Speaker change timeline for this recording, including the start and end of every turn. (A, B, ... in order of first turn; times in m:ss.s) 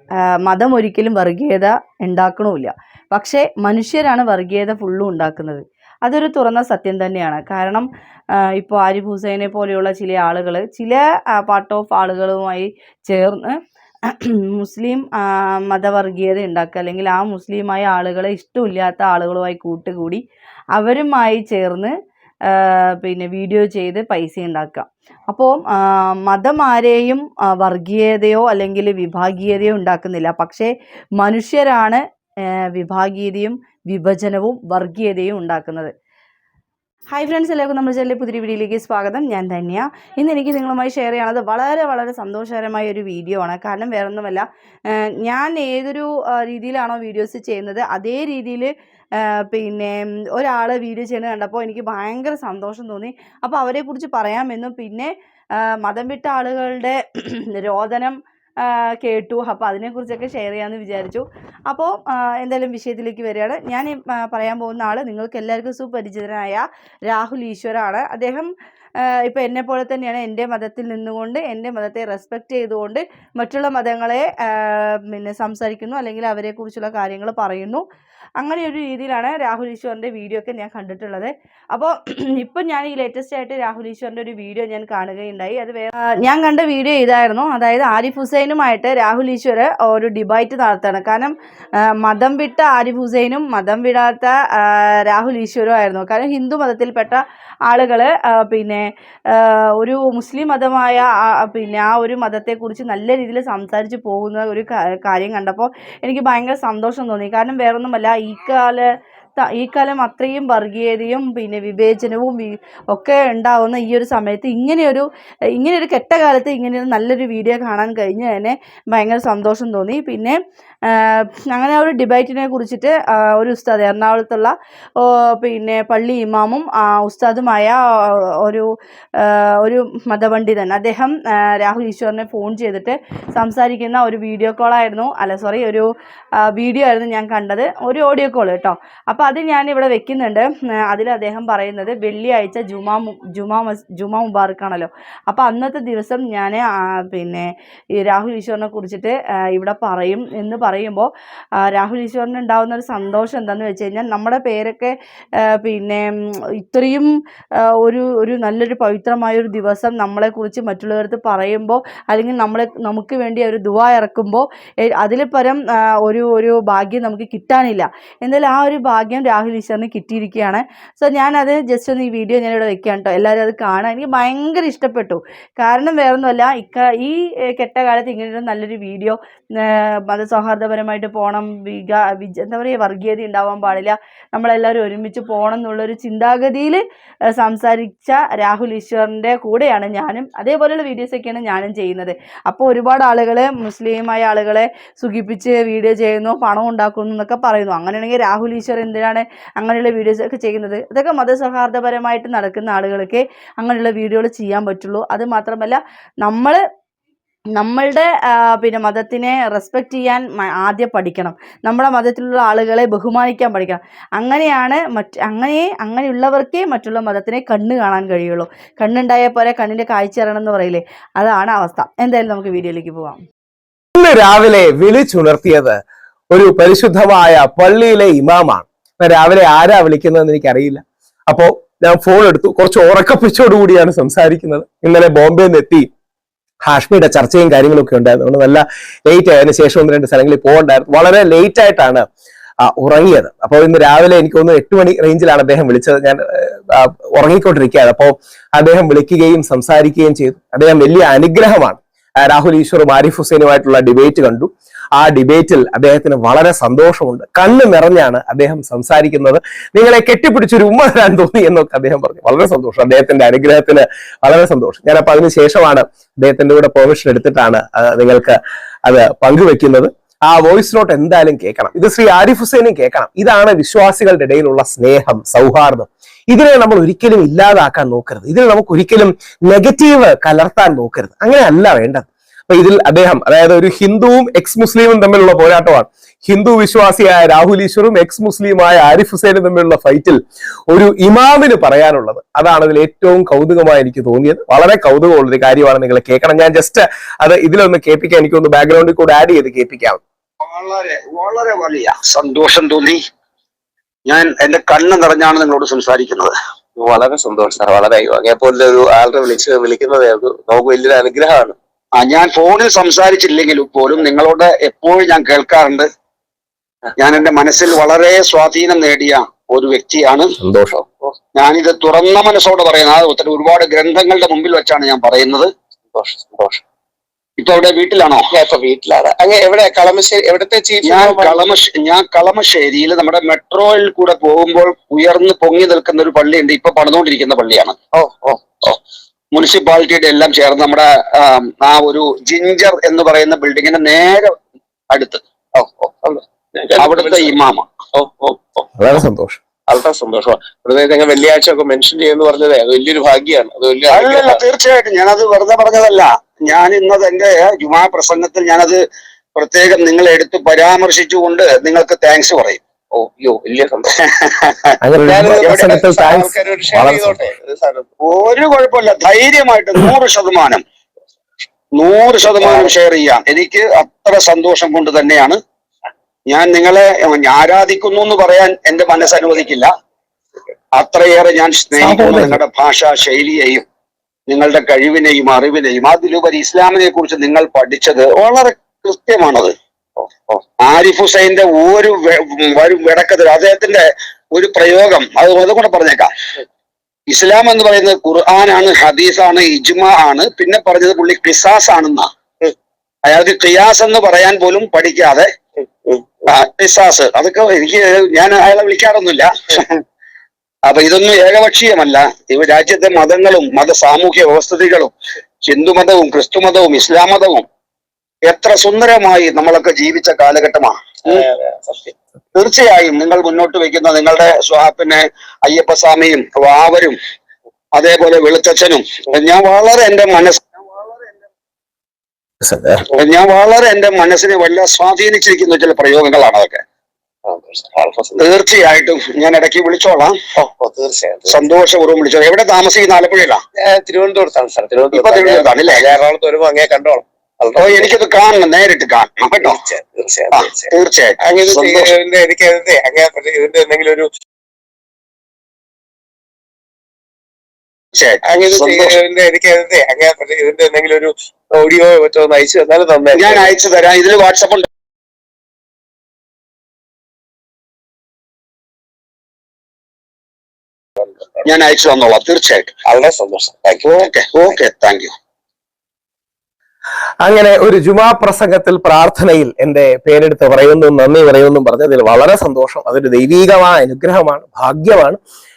0:00.4-0:07.9 A
0:08.5-0:13.6 A
0:14.1-0:20.2 A
0:20.8-0:21.9 A
0:22.5-0:32.0 A
0:32.7-0:35.9 A
0:37.1-1:08.5 A
1:09.0-1:17.8 A
1:18.4-1:31.4 A
1:32.0-2:00.4 A
2:00.9-2:15.9 A
2:16.4-2:31.1 A
2:31.6-2:36.1 A
2:36.6-2:37.1 A
2:37.8-3:06.8 A
3:07.3-3:26.6 A
3:27.6-3:43.2 A
3:44.0-3:45.8 B
3:46.3-3:55.9 B
3:56.6-4:02.0 B
4:02.6-4:50.2 B
4:50.7-5:00.0 B
5:00.4-5:03.0 C
5:04.1-5:06.3 C
5:06.8-5:11.6 D
5:12.0-5:15.9 C
5:17.0-5:20.4 C
5:20.4-5:20.8 B
5:21.4-5:25.5 C
5:25.9-5:26.6 D
5:27.4-5:28.2 C
5:28.3-5:31.4 D
5:30.8-5:37.8 C
5:37.9-5:38.8 D
5:39.3-5:44.4 C
5:44.9-5:45.2 C
5:45.6-5:47.3 D
5:46.8-5:47.7 C
5:47.9-5:48.6 D
5:48.8-5:49.4 B
5:49.7-5:54.4 D
5:53.9-5:58.8 C
5:59.4-6:02.6 C
6:02.9-6:03.9 D
6:04.0-6:04.8 C
6:04.8-6:07.2 B
6:05.0-6:07.9 D
6:05.4-6:05.8 C
6:08.0-6:10.6 C
6:11.8-6:15.4 C
6:16.3-6:19.7 C
6:20.8-6:23.6 C
6:21.8-6:22.4 B
6:24.3-6:29.5 C
6:30.6-6:36.1 C
6:37.1-6:42.1 C
6:43.0-6:45.3 C
6:46.3-6:49.8 C
6:50.7-6:54.9 C
6:55.5-6:57.5 C
6:58.3-7:01.4 C
7:01.4-7:01.9 D
7:02.4-7:07.0 C
7:07.7-7:11.0 C
7:12.4-7:12.8 B
7:12.9-7:16.6 C
7:17.2-7:18.1 D
7:18.1-7:20.2 C
7:20.4-7:21.4 D
7:21.3-7:23.4 C
7:23.6-7:27.9 D
7:24.9-7:26.0 C
7:27.6-7:29.6 C
7:29.5-7:30.7 D
7:30.3-7:31.9 C
7:31.2-7:34.1 D
7:37.9-7:38.9 C
7:38.2-7:43.5 D
7:43.1-7:44.7 C
7:51.4-7:52.8 C
7:52.9-7:54.1 D
7:53.8-7:55.1 C
7:57.2-8:05.2 B